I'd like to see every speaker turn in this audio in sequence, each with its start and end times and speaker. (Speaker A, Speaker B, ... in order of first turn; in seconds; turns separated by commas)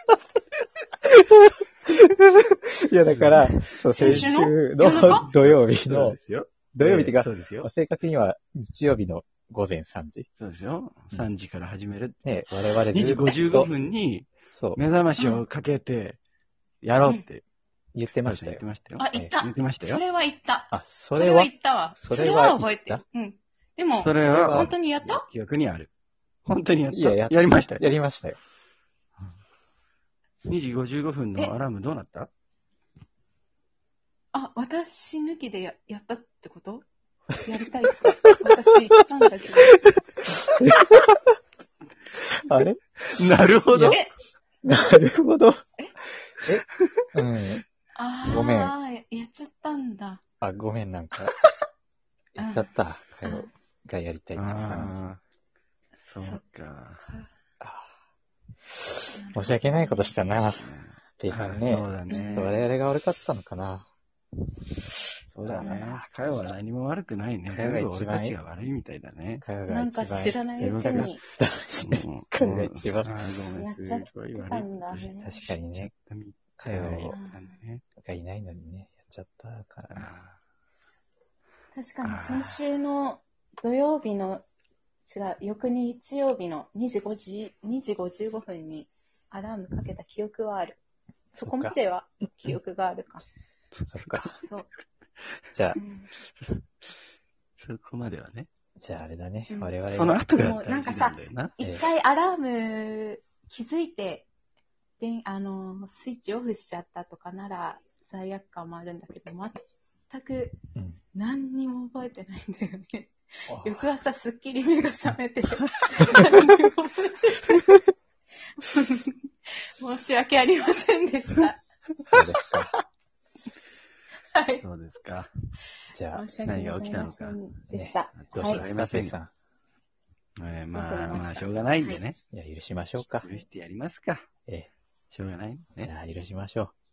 Speaker A: 1.0-6.2, Speaker B: 3.1-4.3, Speaker C: 3.9-5.3, Speaker B: 5.0-7.7, Speaker A: 6.7-10.3, Speaker B: 10.4-12.3, Speaker A: 12.2-13.7, Speaker B: 12.9-16.2, Speaker A: 14.5-14.8, Speaker C: 15.2-15.4, Speaker B: 16.8-17.4, Speaker A: 17.9-19.3, Speaker B: 18.2-20.0, Speaker C: 19.0-25.2, Speaker A: 20.7-23.0, Speaker B: 24.0-25.9, Speaker A: 24.2-24.7, Speaker B: 26.5-27.8, Speaker A: 26.9-28.4, Speaker B: 30.5-32.3, Speaker C: 34.3-36.9, Speaker C: 37.4-39.8, Speaker A: 40.5-41.3, Speaker A: 42.3-44.0, Speaker B: 43.1-44.0, Speaker C: 43.9-44.1, Speaker A: 44.6-45.6, Speaker A: 46.4-47.6, Speaker C: 48.0-50.2, Speaker A: 48.3-48.7, Speaker A: 50.4-51.4, Speaker A: 52.4-54.9, Speaker C: 52.4-52.7, Speaker C: 53.2-53.5, Speaker B: 54.4-55.2, Speaker B: 56.0-57.0, Speaker C: 56.1-56.4, Speaker C: 57.0-57.3, Speaker A: 57.6-57.9, Speaker A: 58.8-63.9, Speaker C: 59.1-60.2, Speaker B: 60.6-62.5, Speaker C: 62.1-62.7, Speaker B: 65.3-69.5, Speaker A: 65.5-66.5, Speaker A: 67.5-68.4, Speaker A: 69.4-73.3, Speaker C: 69.7-71.2, Speaker B: 70.6-71.1, Speaker B: 71.8-75.1, Speaker C: 73.6-75.4, Speaker A: 75.2-75.9, Speaker B: 75.7-77.8, Speaker A: 76.6-77.2, Speaker C: 77.1-77.6, Speaker A: 78.0-80.1, Speaker B: 79.9-80.4, Speaker C: 81.7-84.5, Speaker B: 82.0-82.6, Speaker C: 85.1-90.8, Speaker C: 91.3-93.2, Speaker A: 91.4-91.8, Speaker B: 93.8-94.4, Speaker A: 93.9-94.4, Speaker C: 94.4-94.7, Speaker A: 95.5-95.8, Speaker C: 95.8-96.1, Speaker B: 97.6-98.5, Speaker A: 98.8-100.2, Speaker C: 99.5-99.8, Speaker B: 99.9-101.5, Speaker C: 100.3-104.3, Speaker A: 101.6-101.9, Speaker C: 105.0-110.6, Speaker C: 111.1-117.7, Speaker A: 113.5-113.9, Speaker C: 118.6-119.2, Speaker C: 119.8-121.6, Speaker A: 122.1-122.8, Speaker C: 122.2-122.8, Speaker C: 124.3-124.6, Speaker B: 124.6-125.3, Speaker A: 125.9-126.2, Speaker C: 126.1-128.7, Speaker B: 126.5-127.4, Speaker A: 127.7-129.3, Speaker B: 128.3-129.2, Speaker B: 130.4-132.2, Speaker C: 130.7-132.0, Speaker A: 132.3-133.4, Speaker B: 133.2-134.3, Speaker B: 135.1-135.9, Speaker A: 135.8-136.7